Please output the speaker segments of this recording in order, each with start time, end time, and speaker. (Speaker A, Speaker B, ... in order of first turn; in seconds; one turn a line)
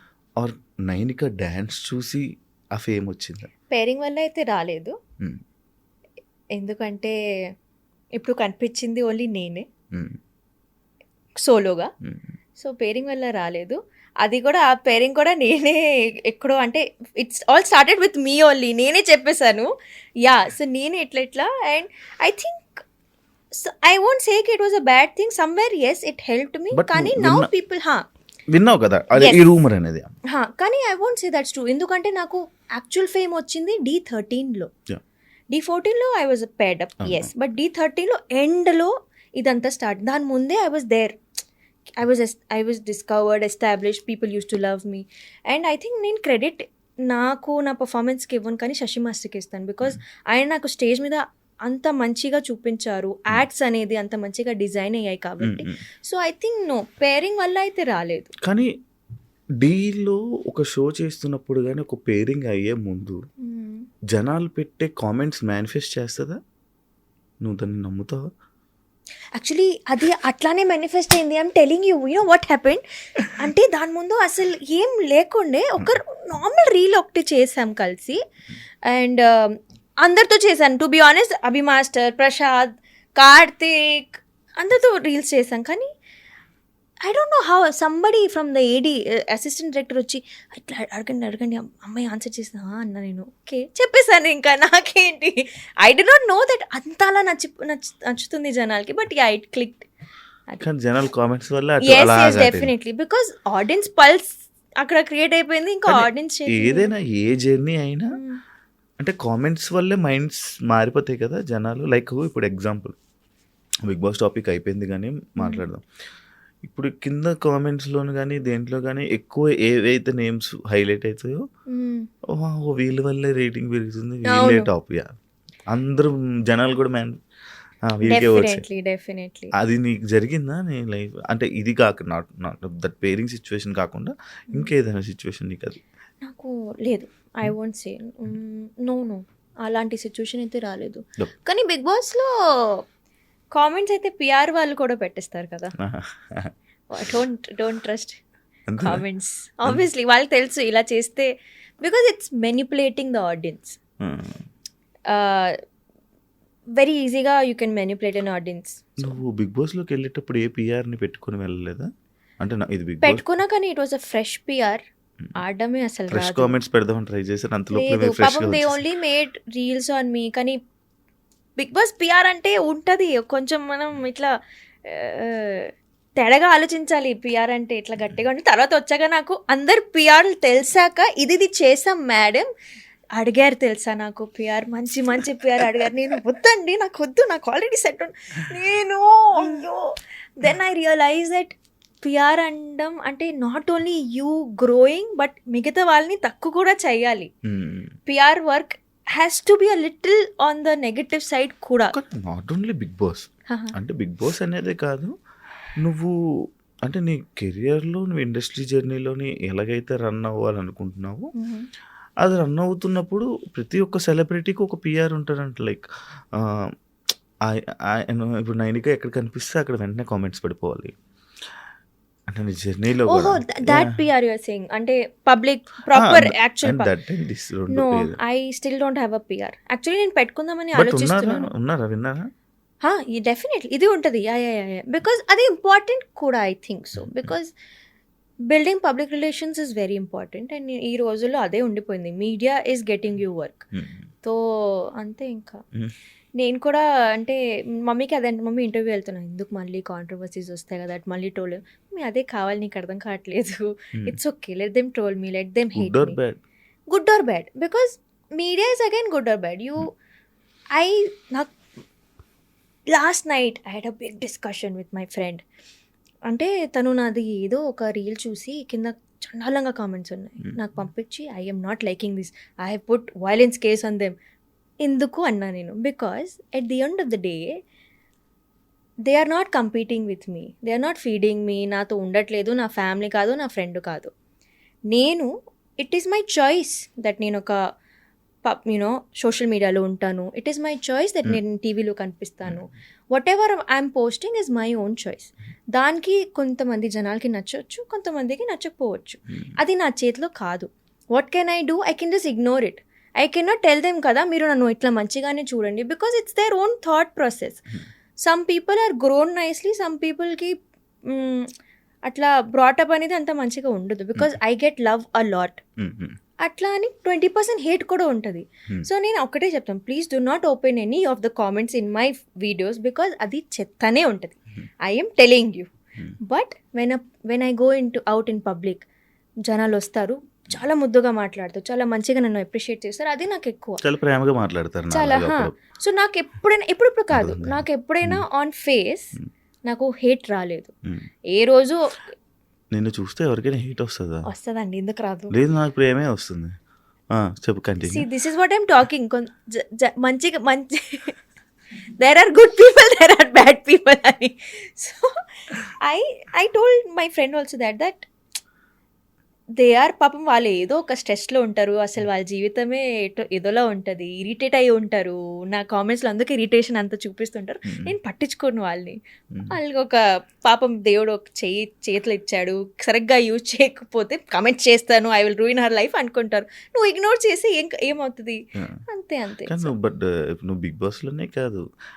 Speaker A: 0.4-2.2
Speaker A: 2.7-3.5
Speaker B: 3.7-4.9
Speaker B: 6.5-7.1
Speaker B: 8.2-9.6
Speaker B: 11.3-11.9
Speaker B: 12.6-19.7
Speaker B: 20.2-22.8
Speaker B: 23.6-28.0
Speaker A: 26.7-27.5
Speaker A: 28.5-30.1
Speaker B: 29.1-29.5
Speaker B: 30.3-34.7
Speaker B: 35.5-41.2
Speaker A: 37.0-37.3
Speaker B: 42.0-58.3
Speaker A: 55.4-55.8
Speaker A: 58.4-58.7
Speaker A: 59.6-63.2
Speaker B: 63.4-63.9
Speaker A: 64.1-66.4
Speaker A: 67.4-68.2
Speaker B: 69.3-78.2
Speaker B: 78.8-85.9
Speaker B: 87.0-99.9
Speaker A: 100.6-102.7
Speaker B: 101.8-106.9
Speaker A: 105.9-108.1
Speaker B: 108.1-108.4
Speaker A: 109.0-112.9
Speaker A: 113.8-115.8
Speaker B: 115.4-115.6
Speaker A: 116.6-121.4
Speaker B: 121.7-122.1
Speaker A: 122.3-125.1
Speaker B: 124.3-124.7
Speaker A: 125.7-127.2
Speaker A: 127.9-128.6
Speaker B: 128.0-129.5
Speaker A: 129.6-135.8
Speaker B: 136.2-142.8
Speaker B: 143.5-145.8
Speaker A: 145.8-146.5
Speaker B: 146.9-148.2
Speaker A: 148.7-149.0
Speaker B: 148.8-153.8
Speaker A: 154.0-154.4
Speaker B: 155.1-155.6
Speaker B: 156.8-159.2
Speaker A: 159.0-161.9
Speaker A: 162.4-163.2
Speaker B: 163.0-164.8
Speaker B: 165.4-166.5
Speaker A: 166.1-168.8
Speaker B: 167.7-170.6
Speaker B: 171.6-174.3
Speaker B: 174.8-182.5
Speaker B: 183.2-197.3
Speaker A: 197.4-197.9
Speaker B: 198.1-201.9
Speaker A: 201.9-205.1
Speaker B: 203.5-203.7
Speaker A: 205.8-206.1
Speaker A: 206.8-211.3
Speaker B: 211.3-211.7
Speaker A: 212.2-216.7
Speaker A: 217.4-220.9
Speaker A: 222.3-223.9
Speaker B: 223.1-226.9
Speaker A: 225.9-228.2
Speaker B: 227.7-231.5
Speaker A: 230.7-232.2
Speaker B: 232.8-237.5
Speaker B: 238.5-243.6
Speaker B: 244.9-245.6
Speaker B: 246.4-256.2
Speaker A: 255.8-256.4
Speaker B: 256.9-259.9
Speaker B: 260.7-261.5
Speaker B: 262.9-265.4
Speaker B: 266.3-274.1
Speaker B: 274.8-277.5
Speaker B: 279.1-284.1
Speaker B: 284.9-287.6
Speaker B: 288.4-307.6
Speaker B: 308.2-310.5
Speaker B: 311.1-311.5
Speaker B: 312.1-315.6
Speaker A: 315.8-316.2
Speaker B: 316.4-325.7
Speaker B: 326.2-328.8
Speaker B: 329.5-333.8
Speaker A: 333.8-335.5
Speaker B: 334.9-339.1
Speaker A: 337.1-338.2
Speaker B: 339.6-340.7
Speaker B: 341.3-342.0
Speaker A: 342.7-344.2
Speaker B: 344.3-345.4
Speaker A: 345.3-346.5
Speaker A: 347.1-348.1
Speaker B: 347.9-351.1
Speaker B: 352.0-355.1
Speaker B: 355.8-358.1
Speaker B: 359.6-369.0
Speaker A: 367.6-367.9
Speaker B: 369.5-379.7
Speaker A: 379.5-381.6